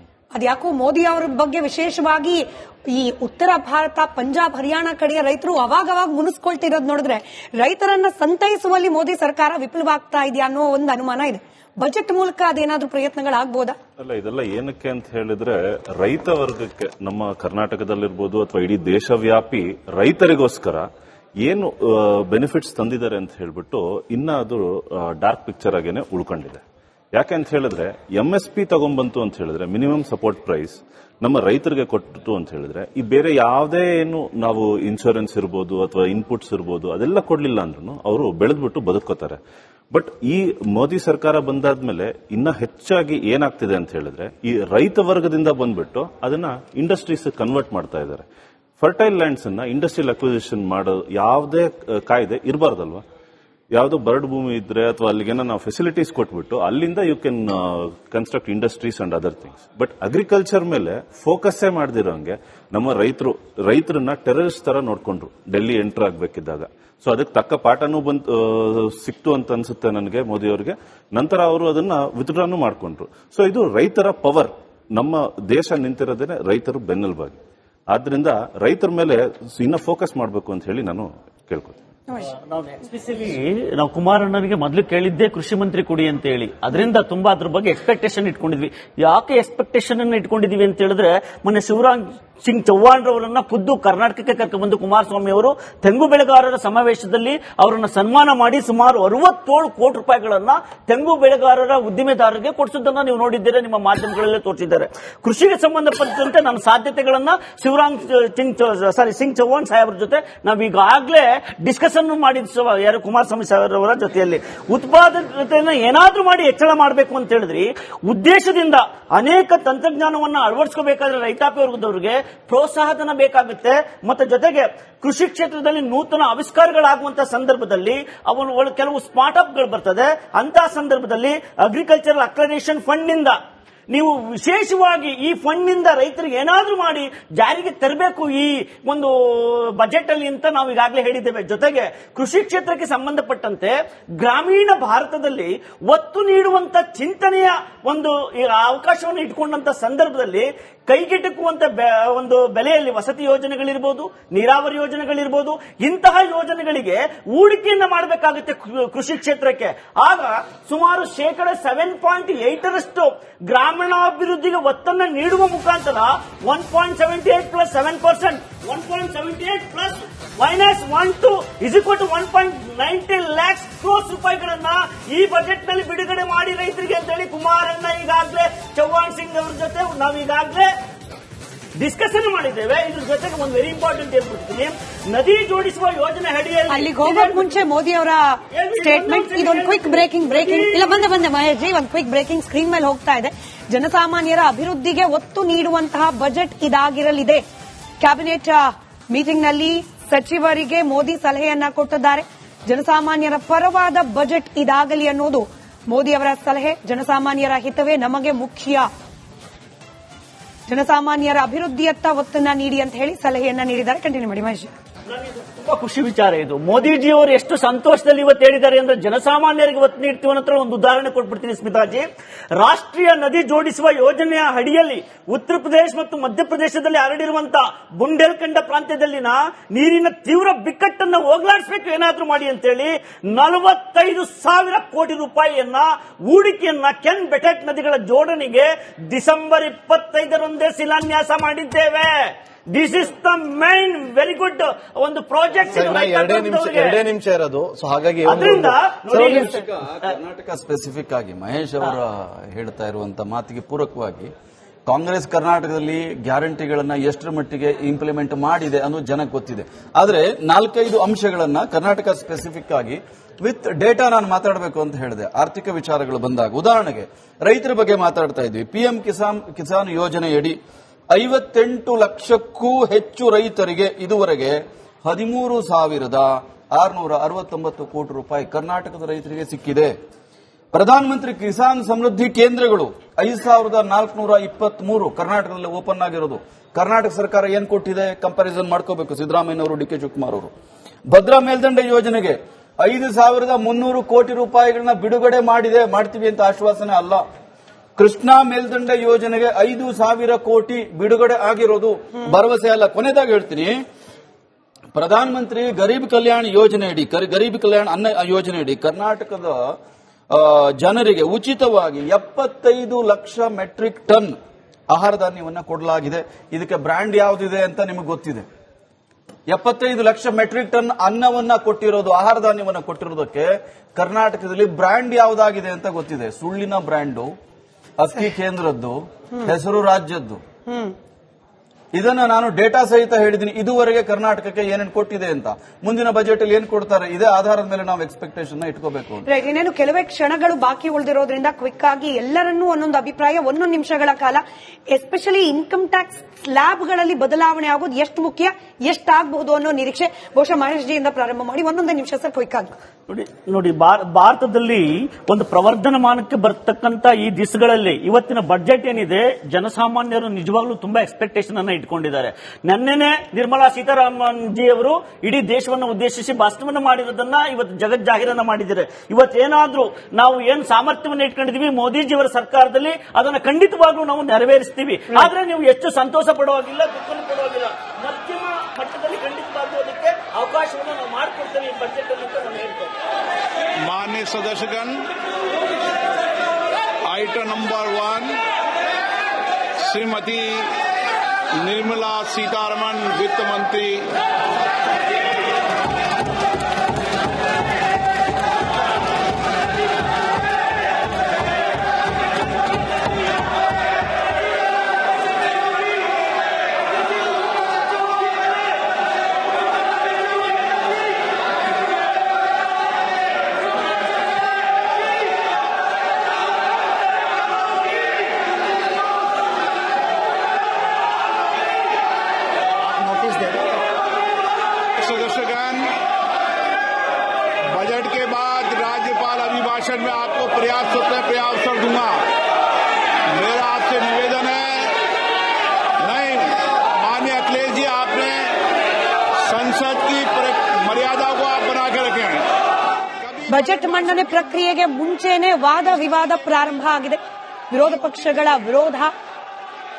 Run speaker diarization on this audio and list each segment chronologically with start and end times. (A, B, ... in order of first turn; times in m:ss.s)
0:00.3-0:13.8 A
0:14.0-0:20.9 B
0:21.4-0:26.6 B
0:27.1-0:39.4 B
0:39.9-0:48.2 B
0:48.8-0:53.0 B
0:53.7-1:17.4 B
1:17.9-1:21.8 B
1:22.2-2:13.4 C
2:13.9-3:00.7 C
3:01.8-3:07.6 C
3:06.7-3:17.4 A
3:08.5-3:11.0 C
3:18.0-3:28.9 A
3:30.7-3:34.7 A
3:35.1-3:42.0 C
3:42.6-4:07.0 C
4:05.7-4:14.3 D
4:08.2-4:10.2 C
4:14.9-4:30.6 D
4:31.1-4:39.9 D
4:40.7-4:50.5 D
4:51.1-4:57.2 D
4:58.0-5:03.8 D
5:04.9-5:09.6 D
5:10.3-5:14.3 D
5:14.9-5:18.4 D
5:19.5-5:27.3 D
5:28.0-5:30.4 D
5:30.7-5:30.9 A
5:31.9-5:39.2 D
5:39.3-5:52.7 A
5:53.1-6:22.9 C
6:23.8-6:25.0 E
6:27.0-6:28.4 E
6:29.8-6:30.7 E
6:31.6-6:34.1 E
7:03.0-7:03.5 E
7:05.0-7:05.9 E
7:07.7-7:12.3 E
7:13.3-7:15.0 E
7:16.0-7:18.6 E
7:19.4-7:22.5 E
7:23.2-7:23.5 E
7:23.4-7:27.2 A
7:27.7-7:29.1 A